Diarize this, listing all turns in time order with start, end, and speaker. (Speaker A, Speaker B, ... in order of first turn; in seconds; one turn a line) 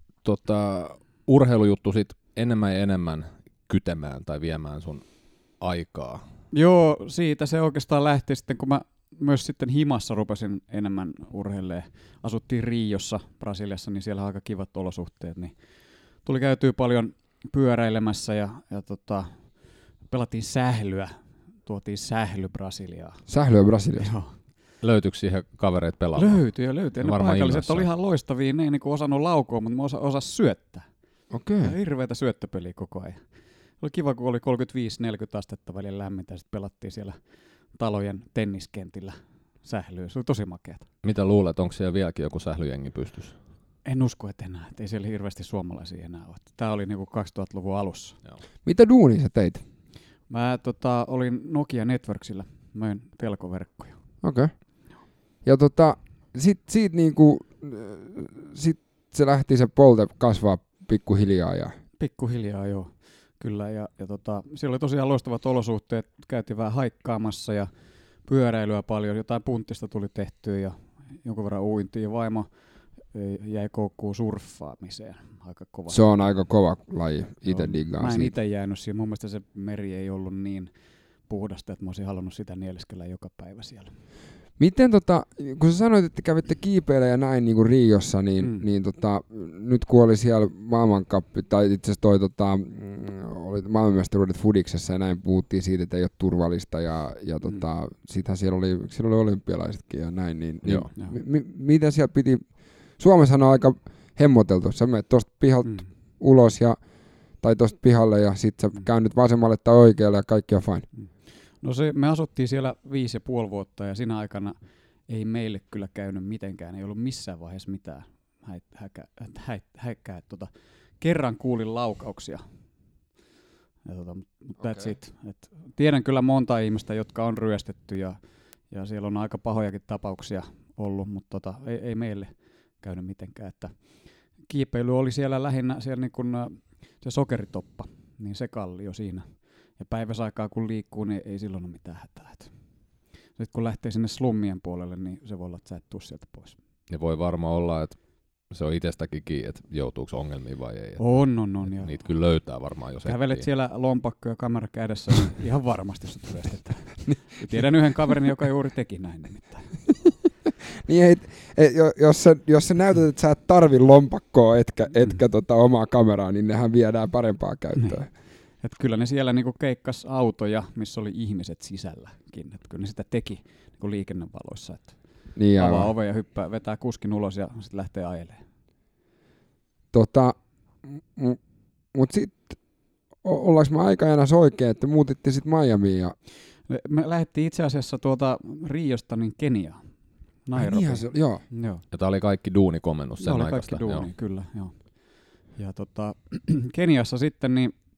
Speaker A: 0.2-6.2
Speaker B: 6.5-23.3
Speaker C: 23.3-24.1
Speaker B: 24.0-24.4
Speaker A: 24.8-27.9
Speaker B: 26.2-40.9
Speaker C: 31.3-31.7
Speaker A: 41.0-43.4
Speaker B: 43.8-48.2
Speaker C: 48.6-49.6
Speaker B: 50.3-54.0
Speaker C: 54.2-61.8
Speaker B: 62.0-76.5
Speaker C: 75.9-78.3
Speaker B: 77.5-84.0
Speaker C: 84.6-110.9
Speaker B: 88.4-88.7
Speaker A: 100.6-100.9
Speaker B: 110.9-122.7
Speaker B: 123.8-146.6
Speaker C: 124.6-124.9
Speaker A: 146.9-153.5
Speaker B: 151.0-152.5
Speaker B: 153.1-159.8
Speaker C: 160.8-168.1
Speaker B: 167.8-178.4
Speaker C: 175.3-175.9
Speaker C: 179.9-186.2
Speaker B: 186.7-191.8
Speaker C: 190.6-191.5
Speaker A: 191.9-194.1
Speaker B: 193.2-197.8